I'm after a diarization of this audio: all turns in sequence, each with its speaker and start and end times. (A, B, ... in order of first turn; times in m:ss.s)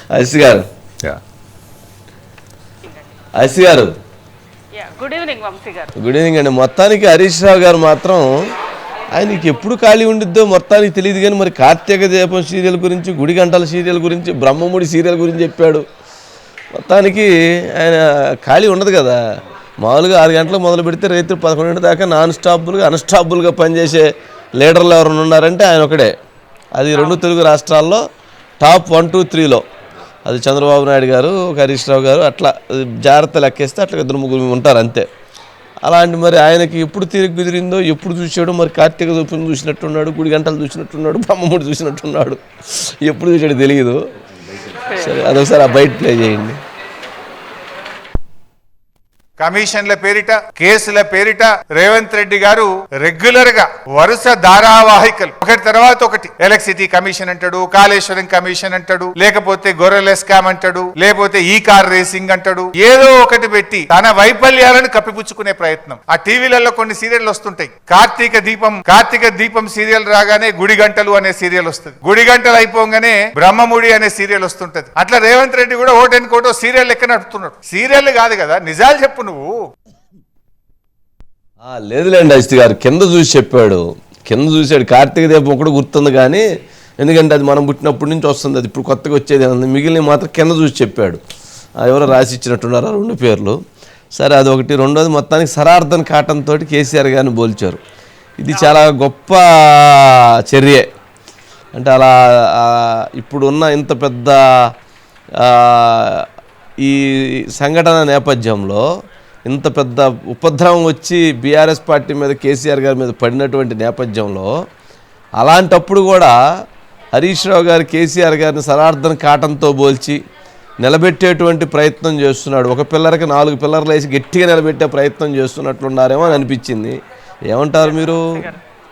0:00.1-0:00.6 A
0:02.8-0:03.1 B
0:03.4-0:03.9 A
0:04.7-0:05.9 B
0:06.0-0:08.3 A
0:09.1-0:15.8 A
0:16.8-0:19.2 A
0:19.8-0:26.1 A
0:26.7-0:28.0 A
0:26.9-0:27.2 B
0:28.6-0:29.6 A
0:30.2-0:35.1 A
0:35.8-0:44.0 A
0:44.9-0:45.4 B
0:44.9-0:46.6 A
0:49.4-1:19.6 C
1:21.6-1:26.4 A
1:27.0-1:31.2 A
1:31.8-1:33.6 A
1:34.2-1:37.8 A
1:38.4-1:40.9 A
1:38.5-1:38.8 B
1:41.7-1:44.4 A
1:45.4-1:46.2 A
1:46.8-1:48.8 A
1:49.5-1:54.5 A
1:55.4-1:56.3 A
1:57.1-2:00.2 A
2:00.8-2:07.0 A
2:07.5-2:08.2 A
2:07.8-2:08.6 B